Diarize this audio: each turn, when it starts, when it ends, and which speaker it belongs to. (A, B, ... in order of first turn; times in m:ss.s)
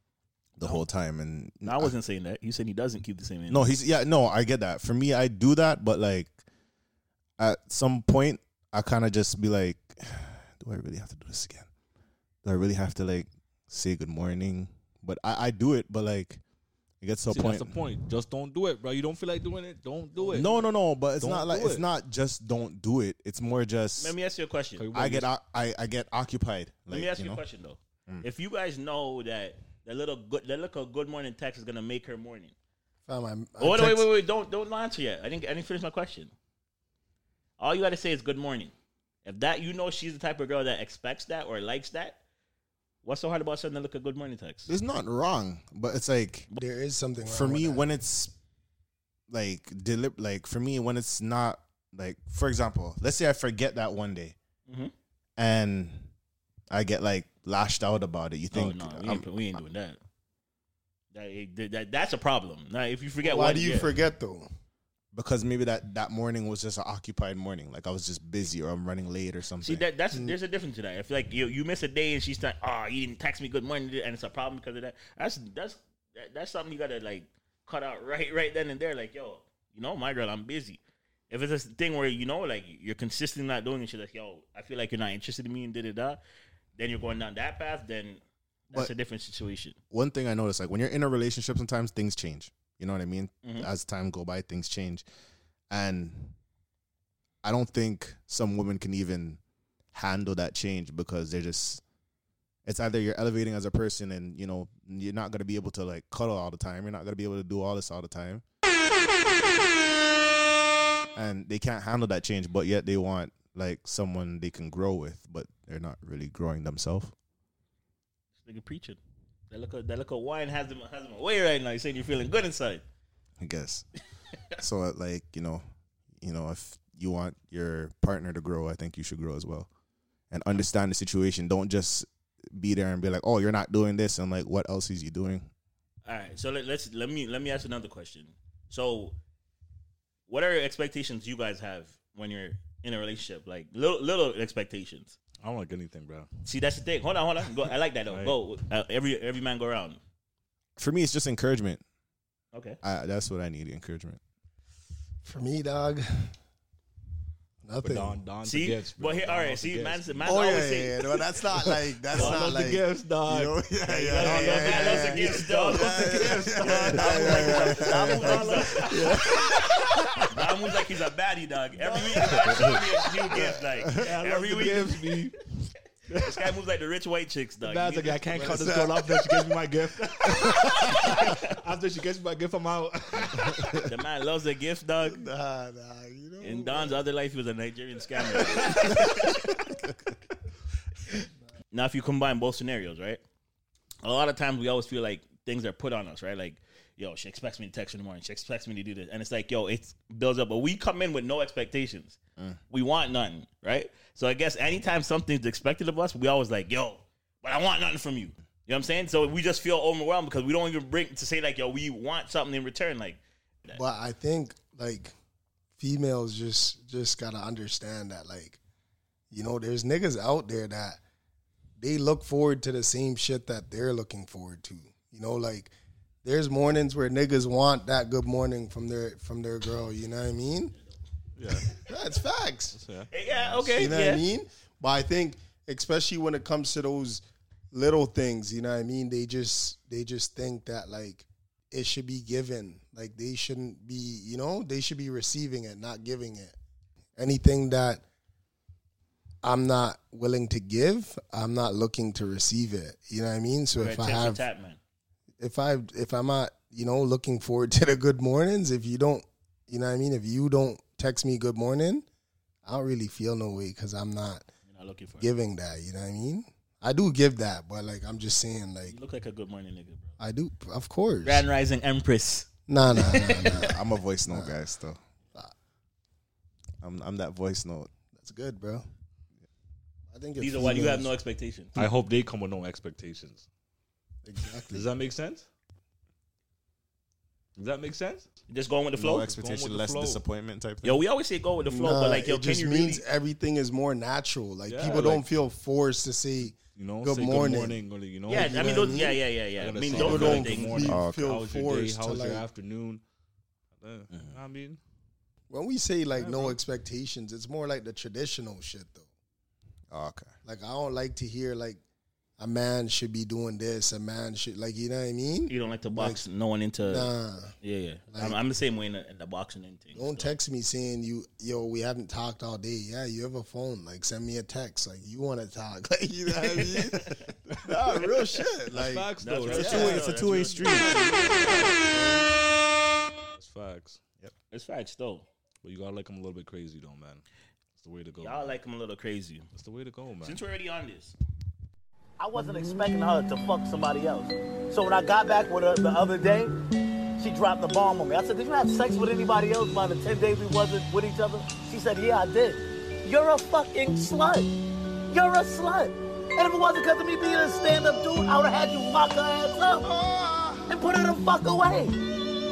0:00.6-0:02.0 A
0:01.6-0:03.7 B
0:03.5-0:06.4 A
0:07.4-0:11.7 A
0:12.4-0:16.4 A
0:17.0-0:18.0 A
0:17.3-0:20.6 C
0:20.3-0:24.2 A
0:21.2-0:21.8 C
0:24.0-0:24.8 B
0:24.8-0:25.3 C
0:24.9-0:27.4 A
0:26.9-0:32.5 B
0:33.1-0:34.1 D
0:33.6-0:36.3 B
0:37.6-0:38.7 B
0:39.2-0:42.2 B
0:43.0-0:44.7 B
0:44.7-0:46.5 A
0:46.6-0:47.9 D
0:47.2-0:48.3 A
0:49.3-0:54.4 A
0:54.7-0:54.9 B
0:55.4-0:56.1 A
0:56.7-0:59.3 A
0:58.5-1:00.0 B
1:01.1-1:03.9 B
1:03.2-1:04.5 D
1:05.1-1:09.8 A
1:09.6-1:26.2 B
1:26.8-1:29.8 B
1:29.9-1:35.0 A
1:33.4-1:33.7 B
1:35.7-1:36.4 A
1:37.4-1:39.4 A
1:39.9-1:41.8 A
1:42.6-1:48.4 A
1:51.2-1:57.1 A
1:58.4-1:59.0 B
1:59.5-2:02.8 B
2:03.4-2:03.9 A
2:04.6-2:05.6 A
2:06.2-2:09.7 A
2:10.3-2:15.5 A
2:16.1-2:19.2 B
2:20.3-2:25.2 B
2:25.4-2:26.3 C
2:26.4-2:30.0 B
2:28.1-2:28.4 C
2:30.8-2:31.8 A
2:32.5-2:32.8 B
2:32.8-2:34.2 A
2:35.2-2:36.3 D
2:37.6-2:38.2 D
2:37.8-2:40.3 C
2:38.4-2:41.0 B
2:40.2-2:49.5 D
2:42.1-2:43.6 C
2:42.1-2:42.5 B
2:43.9-2:49.1 B
2:44.2-2:50.2 C
2:50.3-2:55.0 B
2:51.9-2:52.8 C
2:54.0-2:55.4 C
2:56.1-2:56.4 C
2:56.2-2:58.4 B
2:57.6-3:03.8 C
2:58.3-2:59.4 D
3:00.9-3:01.5 B
3:03.8-3:05.2 B
3:05.0-3:07.0 D
3:06.4-3:09.6 B
3:08.6-3:09.3 D
3:11.7-3:13.2 B
3:14.0-3:22.2 B
3:22.7-3:33.8 B
3:33.7-3:35.1 D
3:35.8-3:38.6 D
3:39.3-3:41.0 D
3:41.8-3:45.7 D
3:46.2-3:50.8 D
3:51.4-3:51.7 C
3:51.8-3:52.8 D
3:52.7-3:53.7 C
3:53.1-3:54.2 B
3:53.7-4:06.6 D
4:07.2-4:08.0 D
4:09.4-4:14.4 D
4:13.8-4:14.8 B
4:15.4-4:22.0 D
4:22.6-4:24.5 D
4:24.7-4:25.3 B
4:25.2-4:29.0 D
4:28.9-4:30.1 B
4:30.2-4:31.5 D
4:31.2-4:33.5 B
4:32.7-4:34.6 D
4:33.4-4:35.0 A
4:36.8-4:37.9 A
4:38.1-4:38.8 D
4:40.1-4:41.1 D
4:40.4-4:41.8 B
4:41.8-4:43.5 C
4:44.2-4:44.9 D
4:44.7-4:45.4 C
4:47.6-4:48.2 C
4:48.5-4:49.3 B
4:49.0-4:51.0 A
4:49.2-4:50.2 C
4:50.8-4:53.0 B
4:51.7-4:59.2 D
4:54.7-4:55.3 C
4:56.8-4:59.0 C
4:58.3-5:00.9 B
4:59.6-5:03.0 C
4:59.9-5:02.4 D
5:00.9-5:01.3 A
5:03.8-5:04.8 C
5:05.5-5:09.1 D
5:06.2-5:06.6 C
5:09.9-5:10.3 A
5:10.4-5:11.8 D
5:12.4-5:16.2 D
5:15.5-5:20.3 B
5:16.8-5:17.6 D
5:18.1-5:18.4 D
5:19.9-5:30.0 D
5:28.7-5:32.3 C
5:29.2-5:31.2 B
5:29.5-5:31.8 A
5:33.3-5:34.0 C
5:34.5-5:35.3 B
5:35.6-5:37.2 C
5:37.8-5:38.6 C
5:38.2-5:39.5 B
5:39.5-5:40.4 C
5:40.2-5:41.2 B
5:42.2-5:46.5 E
5:47.2-5:54.5 E
5:55.1-5:59.9 E
5:59.8-6:00.6 A
6:00.7-6:02.0 E